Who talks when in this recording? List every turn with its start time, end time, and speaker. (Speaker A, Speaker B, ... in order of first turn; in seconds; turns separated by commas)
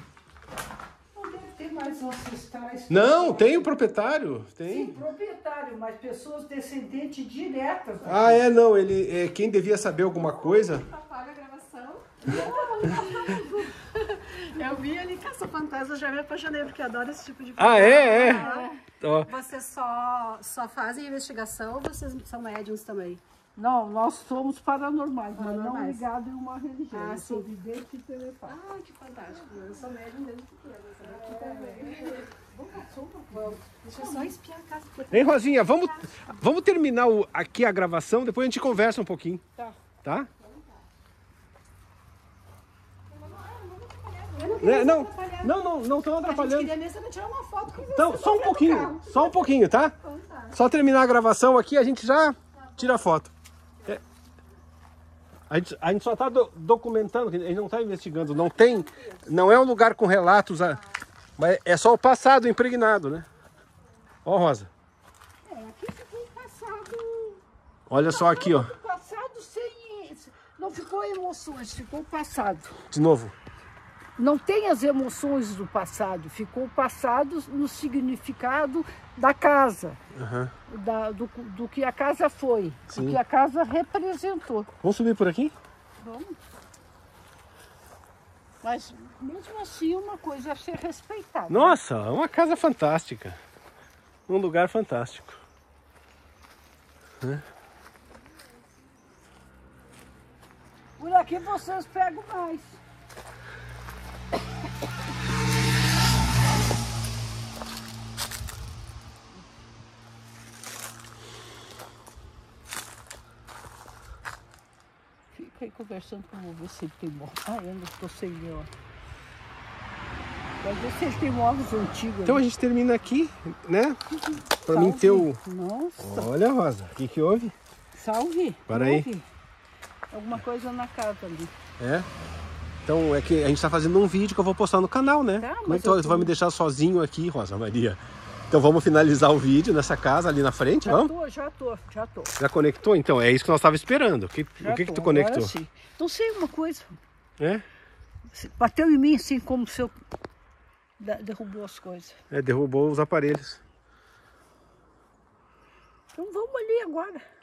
Speaker A: 1.1-3.7, Speaker B: 2.9-5.0, Speaker A: 4.6-8.4, Speaker B: 8.0-10.9, Speaker C: 10.6-18.7, Speaker A: 12.2-13.7, Speaker B: 17.6-18.5, Speaker A: 17.9-18.7, Speaker B: 19.0-19.3, Speaker C: 19.2-23.2, Speaker A: 23.6-28.6, Speaker C: 25.4-26.0, Speaker C: 26.9-27.5, Speaker C: 28.4-32.3, Speaker A: 31.0-34.3, Speaker C: 33.3-36.2, Speaker B: 35.1-39.4, Speaker B: 40.0-40.3, Speaker C: 43.1-45.5, Speaker A: 44.4-44.8, Speaker B: 44.6-46.7, Speaker C: 46.2-50.5, Speaker B: 47.7-50.0, Speaker B: 50.5-53.3, Speaker B: 55.5-60.8, Speaker A: 58.5-59.1, Speaker B: 61.4-63.3, Speaker B: 64.2-64.7, Speaker A: 65.4-67.4, Speaker B: 67.9-68.7, Speaker A: 68.1-72.7, Speaker B: 72.9-73.3, Speaker A: 74.2-80.0, Speaker B: 80.1-80.5, Speaker A: 80.7-84.7, Speaker B: 82.9-83.2, Speaker B: 84.8-85.5, Speaker A: 86.0-86.4, Speaker A: 88.6-91.8, Speaker B: 91.5-93.4, Speaker B: 94.3-95.4, Speaker A: 101.0-102.8, Speaker A: 115.3-118.7, Speaker A: 120.6-122.4, Speaker B: 122.2-124.0, Speaker A: 124.2-126.3, Speaker B: 124.7-125.4, Speaker B: 126.0-127.5, Speaker A: 127.9-129.3, Speaker B: 128.7-129.1, Speaker A: 130.1-131.5, Speaker B: 131.8-132.1, Speaker B: 132.8-141.1, Speaker A: 135.4-136.3, Speaker A: 140.8-142.3, Speaker B: 142.4-145.5, Speaker A: 144.6-146.9, Speaker B: 147.4-147.6, Speaker A: 148.3-149.9, Speaker A: 151.0-152.2, Speaker B: 152.3-153.6, Speaker A: 156.1-157.2